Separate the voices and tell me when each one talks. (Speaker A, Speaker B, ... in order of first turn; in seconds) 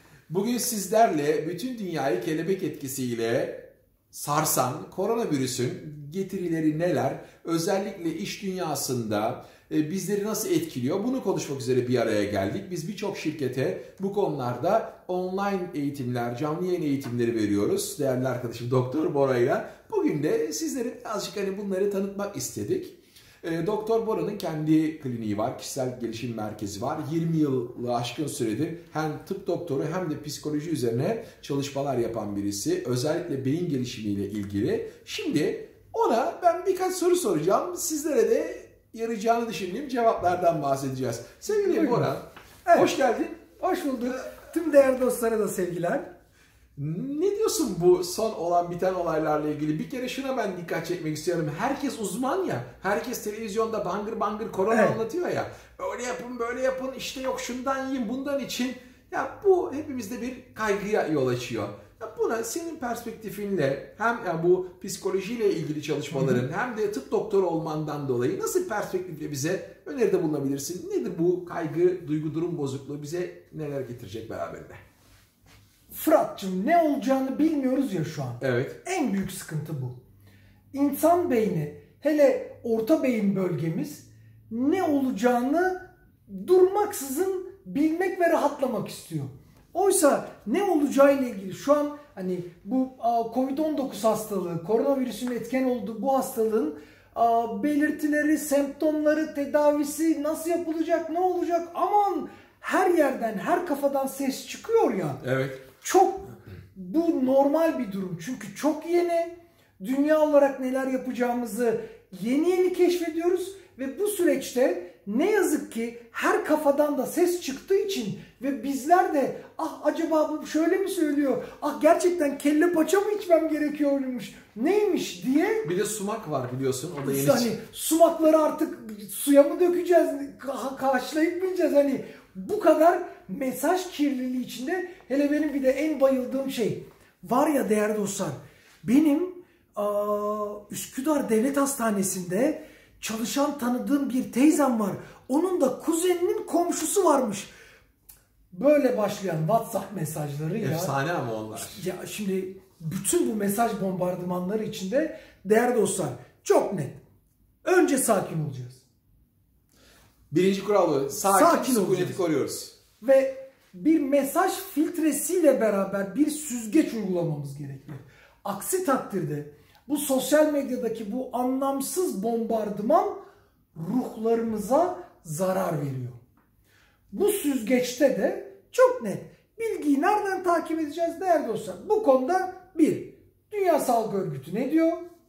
Speaker A: 0.3-43.4, 46.8-74.8, 78.4-78.8, 105.2-105.6, 125.6-127.5, 150.6-151.8, 160.3-162.7
Speaker B: 41.4-46.1, 54.7-55.0, 66.1-66.4, 75.9-80.0, 80.7-105.2, 105.8-125.7, 127.0-147.5, 148.5-150.9, 151.5-157.0, 157.6-158.8, 161.2-162.2, 163.0-173.2, 173.7-176.2, 177.1-185.0